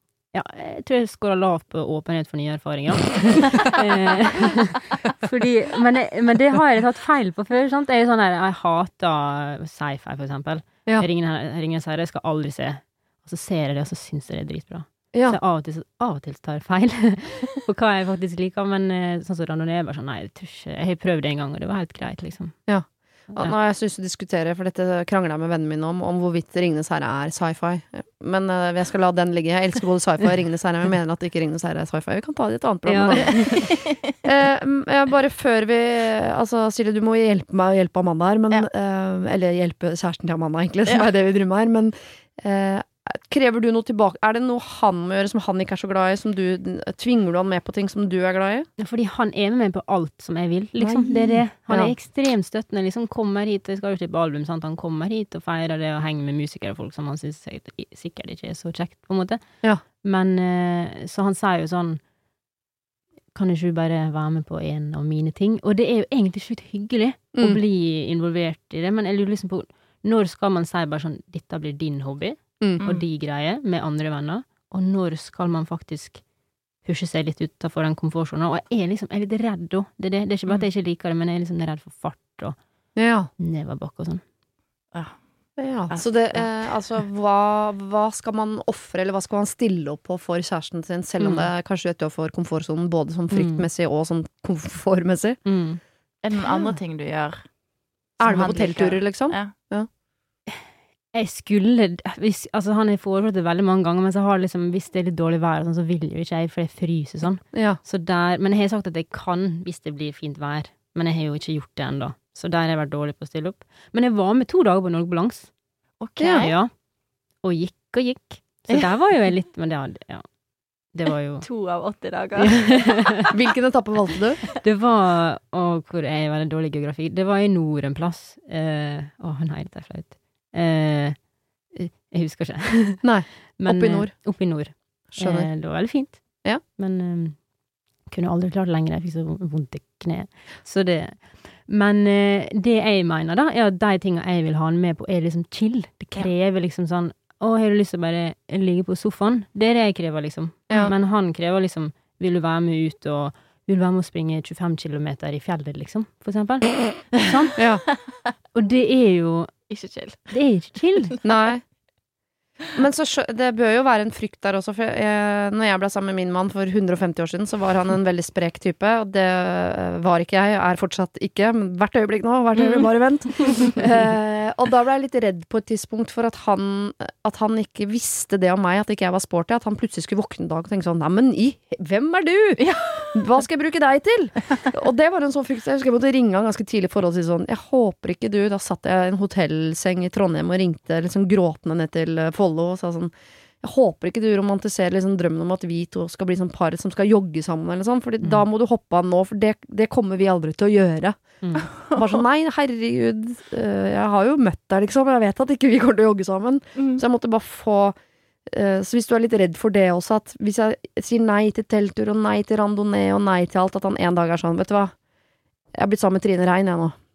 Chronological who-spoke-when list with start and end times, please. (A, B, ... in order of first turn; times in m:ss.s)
0:00.3-0:22.6 A
0:15.1-0:15.4 B
0:22.7-0:48.7 B
0:32.9-0:33.7 A
0:33.7-0:34.1 C
0:48.8-0:59.4 A
0:50.8-0:51.9 B
1:00.0-1:02.0 A
1:03.3-1:16.2 A
1:16.8-1:22.6 A
1:23.0-1:23.3 B
1:23.4-1:24.2 A
1:25.6-1:35.4 B
1:25.9-1:26.5 C
1:31.2-1:31.5 A
1:33.3-1:33.6 A
1:35.5-1:35.8 A
1:36.2-1:37.4 C
1:36.5-1:36.7 B
1:38.2-1:39.9 B
1:38.2-1:39.5 C
1:41.1-1:55.5 A
1:47.5-1:47.8 B
1:56.0-1:56.6 C
1:56.2-1:56.5 B
1:56.4-1:56.7 A
1:57.4-2:00.2 A
2:00.9-2:01.5 A
2:01.4-2:03.3 C
2:02.4-2:03.3 A
2:03.3-2:04.4 B
2:04.6-2:11.2 A
2:11.8-2:13.0 A
2:13.0-2:14.1 B
2:13.6-2:16.2 A
2:15.1-2:15.5 B
2:16.8-2:17.4 A
2:18.1-2:37.6 A
2:37.6-2:37.8 B
2:38.5-2:39.5 A
2:39.7-2:40.3 C
2:40.3-2:41.2 A
2:41.2-2:41.6 B
2:42.8-3:21.2 B
2:52.6-2:52.9 C
3:02.6-3:03.2 C
3:21.4-3:21.7 A
3:21.7-3:22.1 C
3:21.7-3:28.0 B
3:26.8-3:27.0 C
3:28.5-3:34.9 B
3:35.8-3:37.0 B